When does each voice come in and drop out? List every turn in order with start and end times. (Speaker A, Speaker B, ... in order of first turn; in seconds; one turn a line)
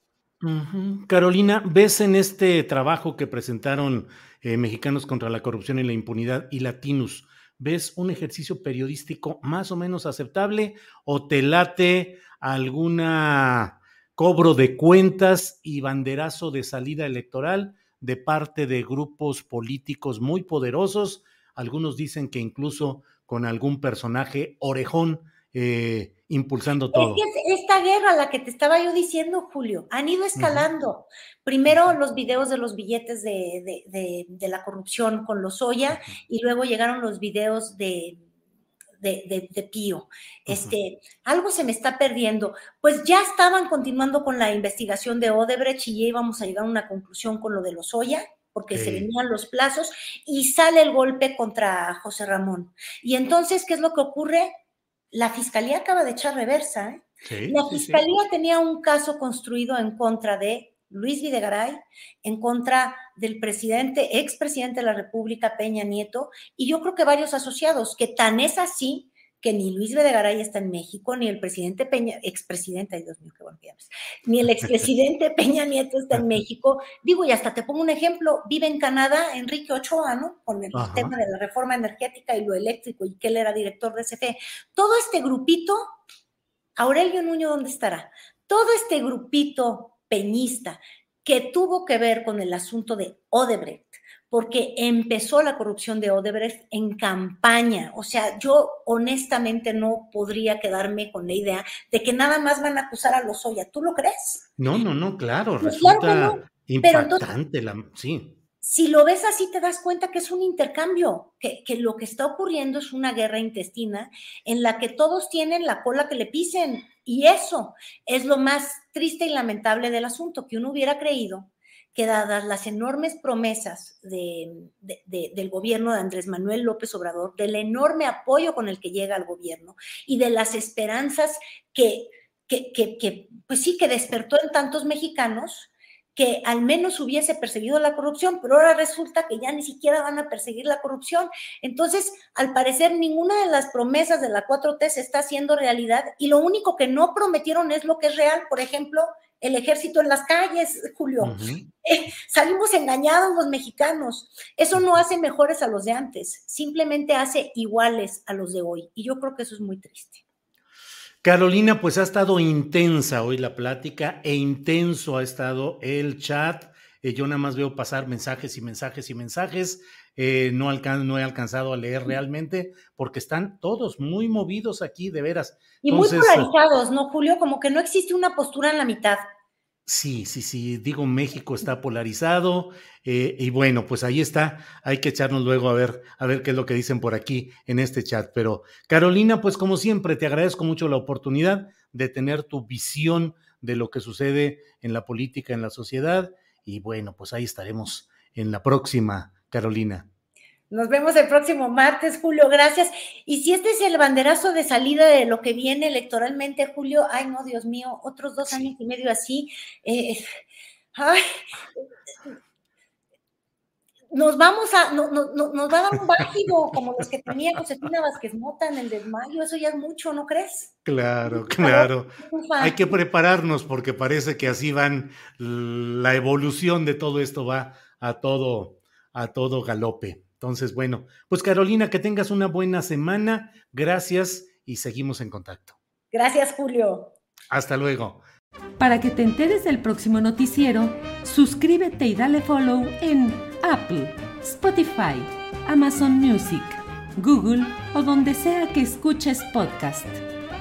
Speaker A: 0.4-27.2
Speaker B: 26.9-38.2
Speaker A: 30.4-30.7
Speaker A: 31.7-31.9
Speaker B: 39.0-54.5
Speaker A: 40.5-40.8
Speaker A: 48.7-49.1
Speaker B: 55.1-85.8
Speaker A: 57.2-58.0
Speaker A: 80.7-81.2
Speaker B: 86.8-104.5
Speaker A: 104.6-108.4
Speaker B: 105.6-107.2
Speaker B: 108.6-160.2
Speaker A: 151.2-151.7
Speaker A: 161.2-176.5
Speaker B: 175.8-179.2
Speaker A: 179.9-200.1
Speaker B: 200.7-210.4
Speaker B: 210.9-211.2
Speaker B: 214.1-220.7
Speaker A: 220.8-235.8
Speaker B: 221.3-223.0
Speaker B: 236.1-237.1
Speaker A: 237.5-238.2
Speaker C: 238.8-250.2